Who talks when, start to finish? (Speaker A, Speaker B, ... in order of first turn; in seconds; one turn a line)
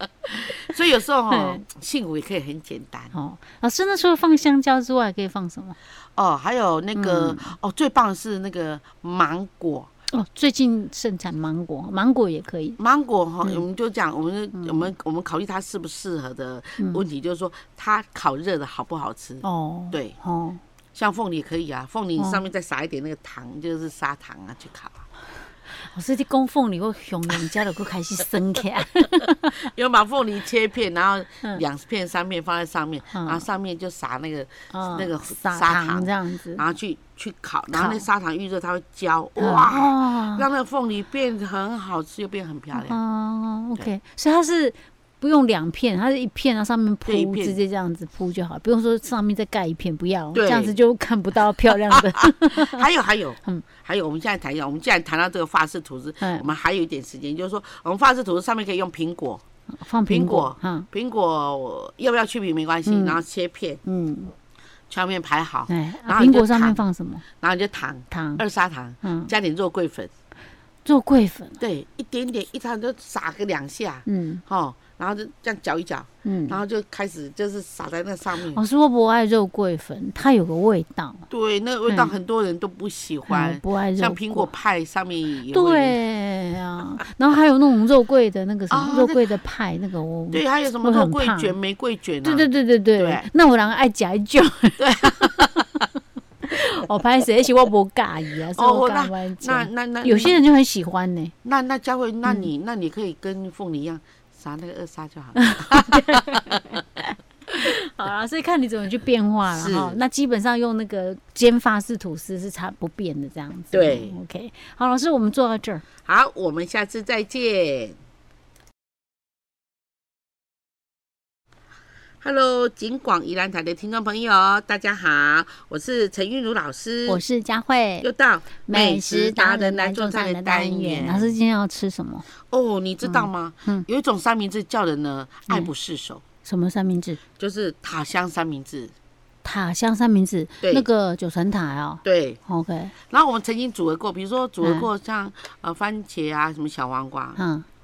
Speaker A: 0.6-3.1
Speaker B: 1.3-1.6
Speaker B: 3.1-5.8
Speaker A: 6.2-9.9
Speaker B: 6.9-7.6
Speaker B: 10.1-12.8
Speaker A: 12.8-20.1
Speaker B: 14.5-14.9
Speaker B: 19.4-20.6
Speaker A: 20.9-25.0
Speaker B: 22.2-22.4
Speaker B: 25.8-29.7
Speaker A: 29.6-43.0
Speaker B: 33.1-33.4
Speaker B: 34.7-36.6
Speaker B: 37.7-38.0
Speaker B: 39.4-40.5
Speaker B: 42.7-52.8
Speaker A: 47.0-47.6
Speaker A: 50.3-50.8
Speaker A: 51.6-59.4
Speaker B: 56.2-56.5
Speaker B: 59.7-60.9
Speaker A: 60.1-63.8
Speaker B: 62.9-63.2
Speaker B: 63.8-64.3
Speaker A: 64.9-66.8
Speaker B: 65.7-67.2
Speaker A: 67.4-70.1
Speaker B: 68.1-68.4
Speaker B: 69.0-69.3
Speaker B: 70.8-71.6
Speaker A: 71.6-78.6
Speaker B: 74.0-74.4
Speaker B: 76.2-76.6
Speaker B: 78.4-81.3
Speaker A: 81.3-86.0
Speaker B: 81.9-82.1
Speaker B: 83.3-84.5
Speaker B: 85.5-91.5
Speaker A: 88.7-89.2
Speaker A: 90.3-93.3
Speaker B: 92.2-95.8
Speaker A: 94.8-95.5
Speaker B: 96.4-101.3
Speaker A: 98.5-100.4
Speaker A: 101.4-106.6
Speaker B: 105.3-106.5
Speaker B: 107.5-115.8
Speaker A: 109.5-110.0
Speaker A: 113.7-114.2
Speaker A: 116.0-118.0
Speaker A: 122.2-127.2
Speaker B: 127.1-128.1
Speaker A: 128.0-131.3
Speaker B: 128.6-132.2
Speaker A: 132.4-136.2
Speaker B: 133.0-133.9
Speaker B: 136.4-137.2
Speaker A: 137.4-138.9
Speaker B: 139.4-142.9
Speaker A: 140.6-140.9
Speaker A: 142.0-142.4
Speaker A: 143.1-147.4
Speaker B: 144.6-144.9
Speaker B: 147.3-147.7